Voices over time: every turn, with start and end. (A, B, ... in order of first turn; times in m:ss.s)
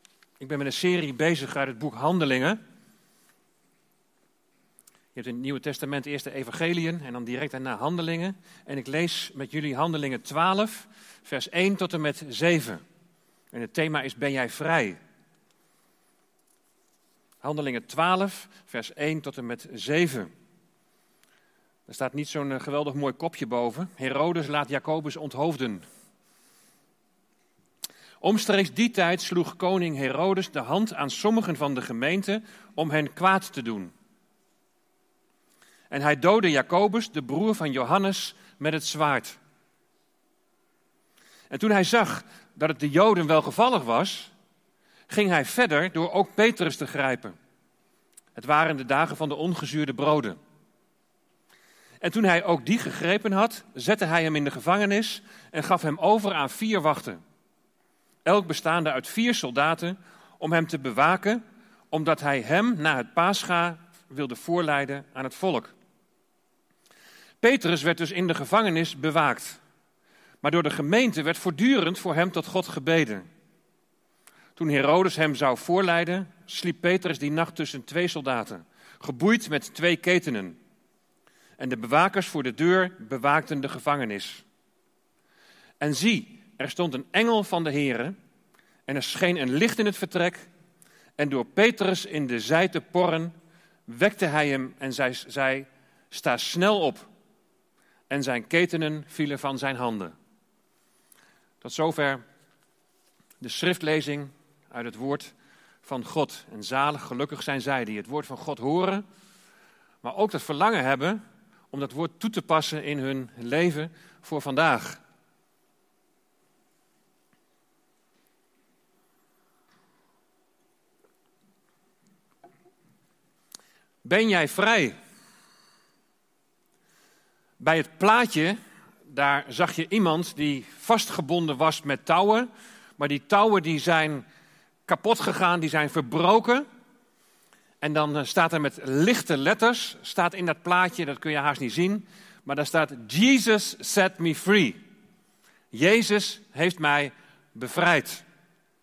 0:00.4-0:02.6 A
0:05.1-0:12.8 A
0:13.5-0:15.0 A
0:17.4-0:20.3 A
0:21.9-0:25.8 A
0:28.2-0:33.9 A
0:35.9-0:39.4 A
0:41.5-0:44.3 A
0:45.1-0:47.4 A
0:48.4-0:50.4 A
0:52.0-0:57.2 A
0:58.3-1:01.4 A
1:01.9-1:05.7 A
1:07.4-1:09.6 A
1:10.4-1:13.2 A
1:14.6-1:20.6 A
1:21.6-1:24.4 A
1:25.8-1:28.2 A
1:28.9-1:30.4 A
1:31.2-1:33.3 A
1:33.8-1:37.1 A
1:38.1-1:40.1 A
1:41.6-1:42.2 A
1:43.4-1:49.0 A
1:50.0-1:55.0 A
2:04.0-2:05.0 A
2:07.6-2:14.2 A
2:14.8-2:16.7 A
2:17.8-2:24.8 A
2:25.7-2:28.2 A